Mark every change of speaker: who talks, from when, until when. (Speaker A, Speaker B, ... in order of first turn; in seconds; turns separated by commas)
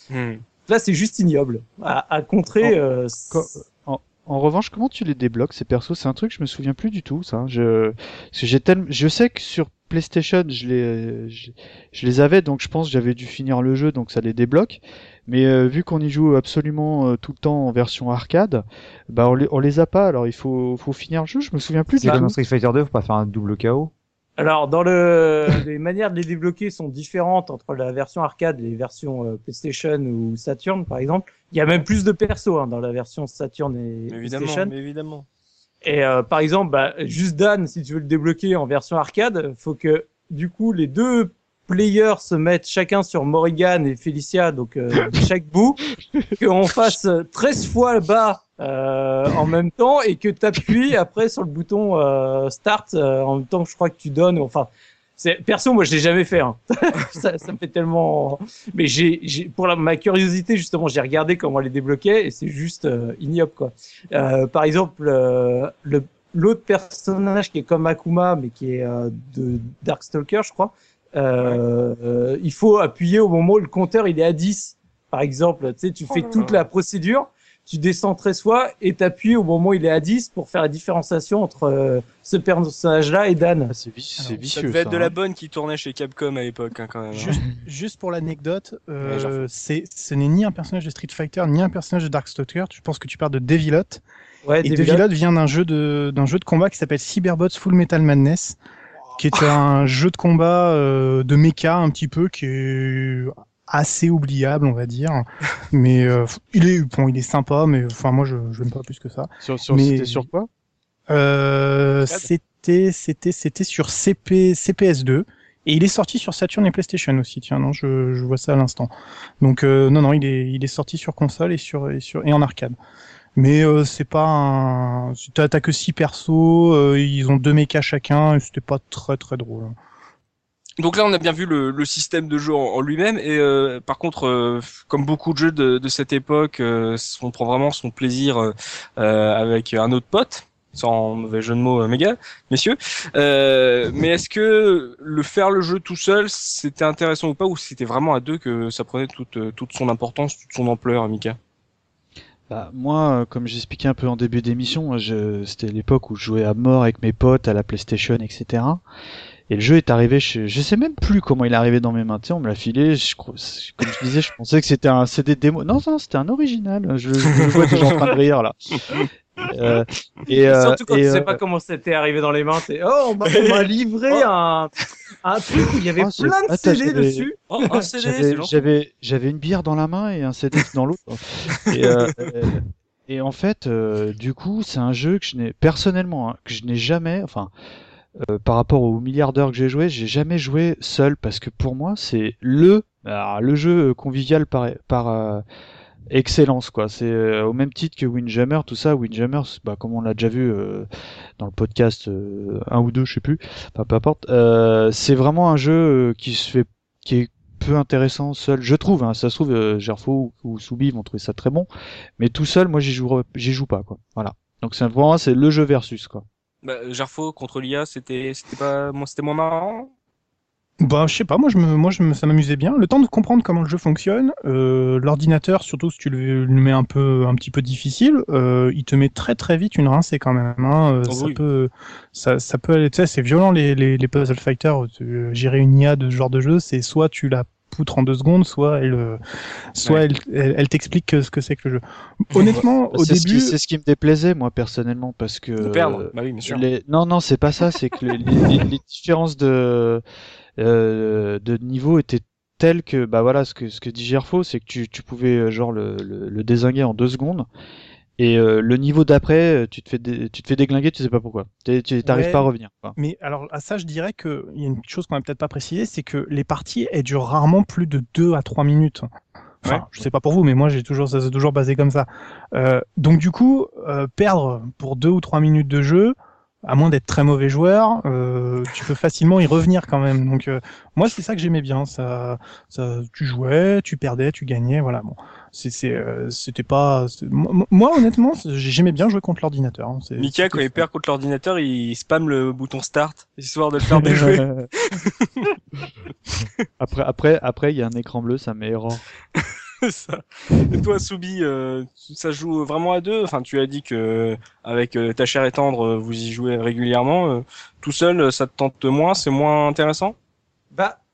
Speaker A: 0.1-0.4, Speaker B: 0.7-3.5, Speaker C: 3.3-22.4, Speaker D: 21.9-23.9, Speaker B: 24.4-34.7, Speaker A: 34.1-35.2, Speaker B: 35.8-45.8, Speaker B: 46.4-83.7, Speaker A: 76.1-76.6, Speaker C: 83.7-85.1, Speaker A: 84.4-87.3, Speaker E: 87.1-94.0, Speaker A: 89.0-89.5, Speaker B: 94.5-95.0, Speaker E: 94.6-98.6, Speaker E: 99.2-110.3, Speaker C: 109.4-110.5, Speaker E: 111.1-122.8, Speaker E: 123.3-129.7, Speaker A: 130.8-151.4, Speaker C: 152.5-158.8, Speaker C: 159.5-168.8, Speaker A: 167.4-168.0, Speaker C: 169.5-171.4, Speaker B: 170.3-174.7, Speaker A: 173.2-174.2, Speaker B: 175.2-177.4, Speaker C: 176.0-177.3, Speaker A: 177.5-178.6, Speaker C: 177.9-187.5, Speaker A: 181.6-182.3, Speaker C: 188.2-195.4, Speaker C: 196.1-200.9, Speaker C: 201.4-216.2, Speaker A: 216.6-219.9, Speaker E: 220.8-239.2, Speaker A: 231.1-231.4, Speaker E: 239.7-243.6, Speaker A: 242.3-242.6, Speaker C: 242.9-250.0, Speaker A: 245.6-246.6, Speaker C: 250.6-257.5, Speaker C: 258.2-262.9, Speaker E: 262.0-269.1, Speaker E: 269.6-290.8, Speaker A: 290.2-295.6, Speaker C: 293.9-294.7, Speaker E: 294.0-294.4, Speaker A: 296.3-296.6, Speaker C: 296.8-299.0, Speaker A: 299.3-310.1